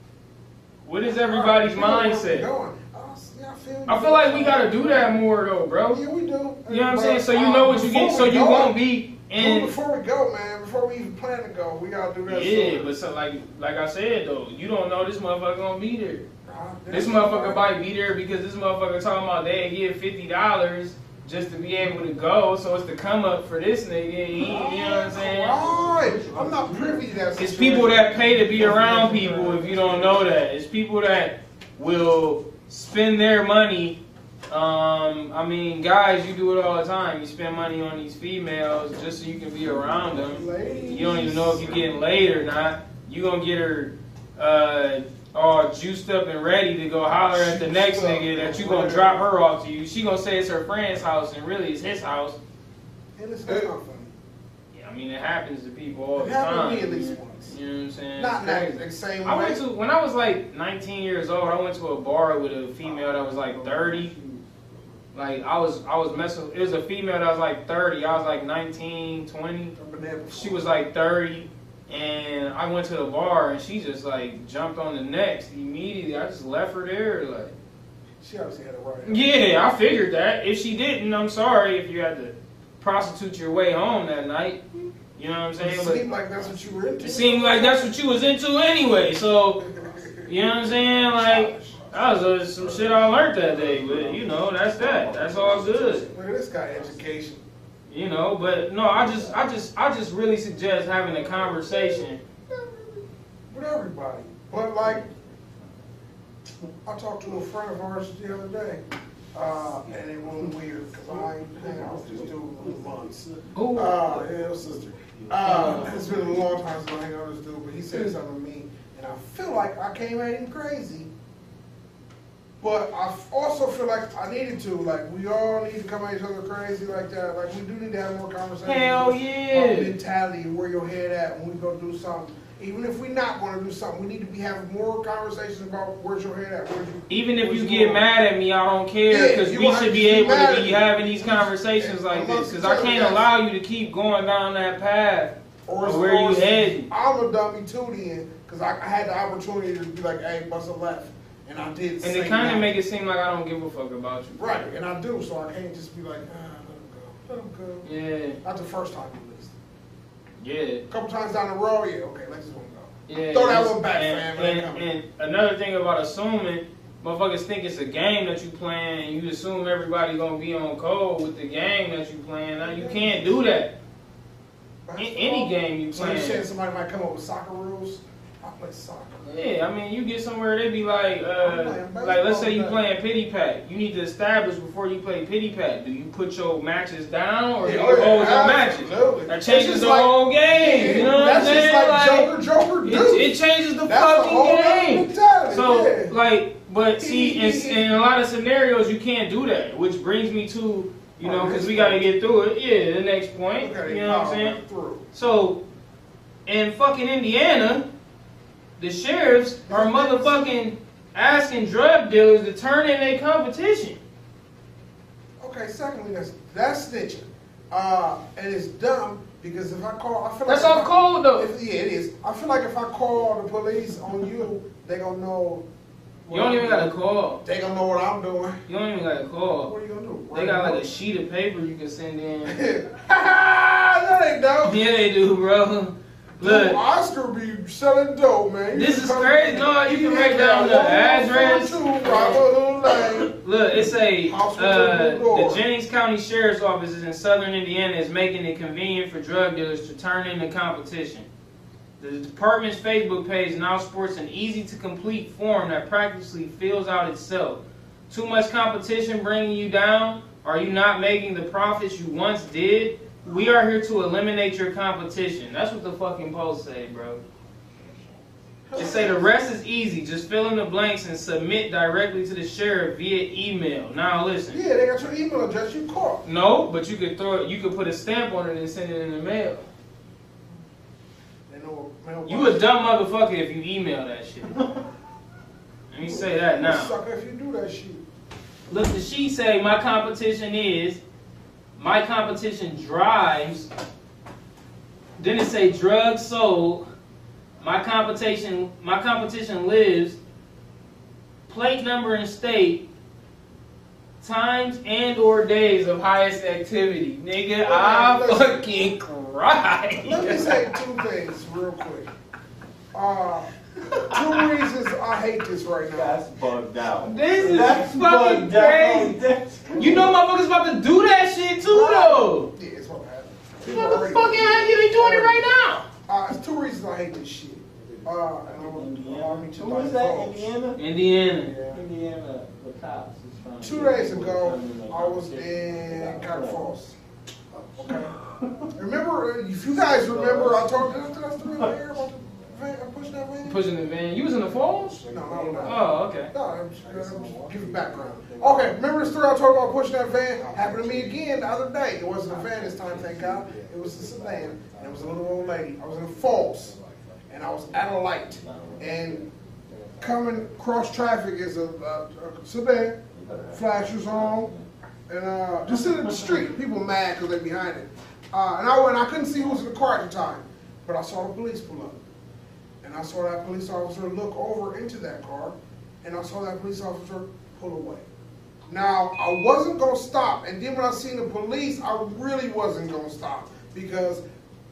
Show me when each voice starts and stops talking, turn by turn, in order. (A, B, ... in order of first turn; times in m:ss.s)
0:00.8-0:02.5 A
0:01.1-0:05.2 B
0:03.9-0:06.0 A
0:05.9-0:08.7 B
0:06.7-0:09.7 A
0:09.3-0:12.9 B
0:12.3-0:16.3 A
0:16.4-0:17.6 B
0:16.9-0:25.6 A
0:24.4-0:30.2 B
0:25.5-0:27.3 C
0:27.4-0:34.0 A
0:34.5-0:52.4 A
0:40.2-0:42.0 B
0:47.2-0:49.3 B
0:53.2-0:54.1 B
0:54.7-1:04.1 A
0:56.2-0:57.5 B
0:58.2-0:59.6 B
1:02.8-1:04.1 B
1:03.3-1:04.4 C
1:05.1-1:09.7 A
1:09.7-1:10.6 B
1:10.3-1:17.5 A
1:18.2-1:19.3 B
1:19.0-1:24.6 A
1:25.1-1:26.0 A
1:25.6-1:27.9 B
1:27.0-1:29.6 A
1:29.6-1:31.9 B
1:30.2-1:36.1 A
1:32.0-1:36.9 C
1:36.1-1:37.4 B
1:37.9-1:42.2 A
1:38.9-1:39.4 C
1:41.9-1:42.9 B
1:43.5-1:45.0 B
1:46.8-1:48.8 B
1:49.3-2:01.1 B
1:51.0-1:56.5 C
1:53.5-1:54.1 A
1:55.4-1:55.9 A
2:02.6-2:18.0 B
2:08.6-2:09.9 A
2:17.1-2:26.9 A
2:19.1-2:23.3 B
2:25.6-2:32.7 B
2:32.0-2:34.7 A
2:34.4-2:37.9 B
2:37.8-2:38.4 A
2:38.4-2:39.5 B
2:40.4-2:40.8 A
2:40.9-2:44.9 B
2:43.1-2:53.7 A
2:52.6-2:53.4 B
2:54.8-2:59.3 B
2:55.0-2:56.4 A
2:59.2-3:12.3 A
3:01.4-3:02.8 B
3:07.6-3:13.3 B
3:12.8-3:24.6 A
3:13.8-3:16.2 B
3:17.0-3:17.8 B
3:21.2-3:22.0 B
3:23.6-3:25.1 B
3:25.1-3:25.6 A
3:26.4-3:27.9 A
3:28.8-3:34.0 A
3:29.7-3:30.6 B
3:35.4-3:45.6 B
3:40.5-3:41.5 A
3:46.2-3:48.6 B
3:46.3-3:47.4 A
3:48.7-3:49.7 A
3:49.6-3:50.8 B
3:50.3-3:52.6 A
3:52.4-3:54.8 B
3:54.6-3:56.8 A
3:56.4-4:03.3 B
3:58.7-4:02.4 A
4:03.4-4:11.3 A
4:04.2-4:05.6 B
4:12.0-4:27.2 A
4:28.7-4:29.3 B
4:28.7-4:34.6 A
4:34.5-4:36.2 B
4:36.2-4:39.6 A
4:41.5-4:42.7 B
4:42.3-4:44.7 A
4:45.9-4:46.9 A
4:46.0-4:48.0 B
4:48.7-4:51.0 A
4:51.8-4:53.7 A
4:55.2-4:56.8 A
4:57.6-5:00.2 A
5:01.5-5:02.8 A
5:04.2-5:10.7 A
5:07.6-5:08.6 B
5:10.0-5:12.1 B
5:12.9-5:13.5 B
5:14.0-5:16.2 B
5:15.9-5:20.2 C
5:17.0-5:19.1 A
5:17.4-5:17.8 B
5:19.8-5:22.5 A
5:19.8-5:20.0 B
5:21.6-5:25.5 B
5:23.6-5:25.9 A
5:26.0-5:30.5 B
5:27.8-5:36.9 C
5:30.8-5:31.5 A
5:33.6-5:36.9 B
5:37.5-5:38.7 C
5:37.7-5:38.1 B
5:38.7-5:43.6 B
5:39.8-5:41.8 C
5:43.4-5:45.0 A
5:44.0-5:45.9 C
5:45.0-5:56.7 B
5:45.6-5:46.3 A
5:46.8-5:49.8 C
5:50.4-5:51.3 C
5:52.2-6:00.5 C
5:57.3-5:59.2 B
6:00.0-6:04.5 B
6:03.1-6:04.7 C
6:05.1-6:12.0 B
6:05.7-6:06.5 C
6:12.8-6:18.0 B
6:18.7-6:24.2 B